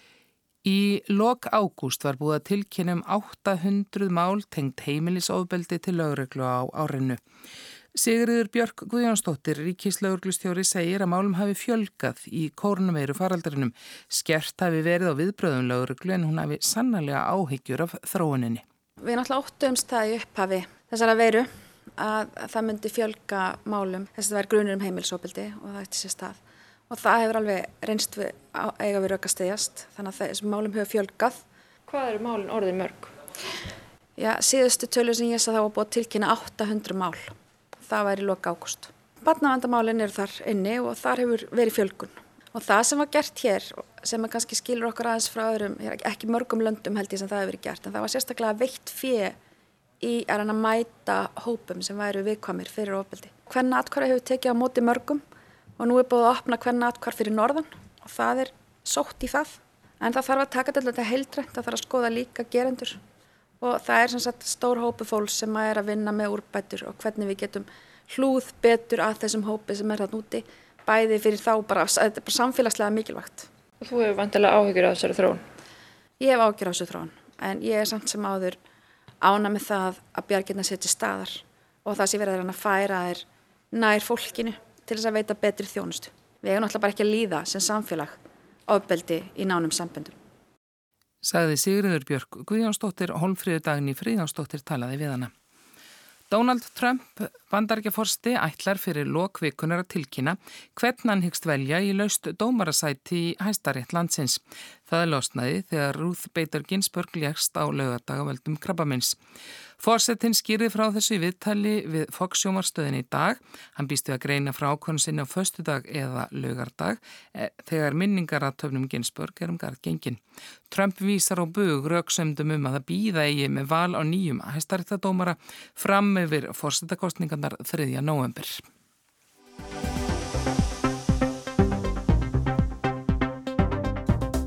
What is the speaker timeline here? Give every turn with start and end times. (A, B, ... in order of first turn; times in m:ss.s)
0:00.6-0:07.2 A
0:07.9-0:18.6 A
0:19.0-0:31.4 B
0:31.9-0:33.2 C
0:34.2-0:49.4 B
0:50.0-0:55.2 B
0:55.8-1:03.0 B
1:03.6-1:13.5 B
1:13.8-1:15.4 C
1:16.2-1:18.6 B
1:19.2-1:30.2 B
1:31.2-1:35.3 A
1:36.3-1:49.2 A
1:49.8-2:08.6 A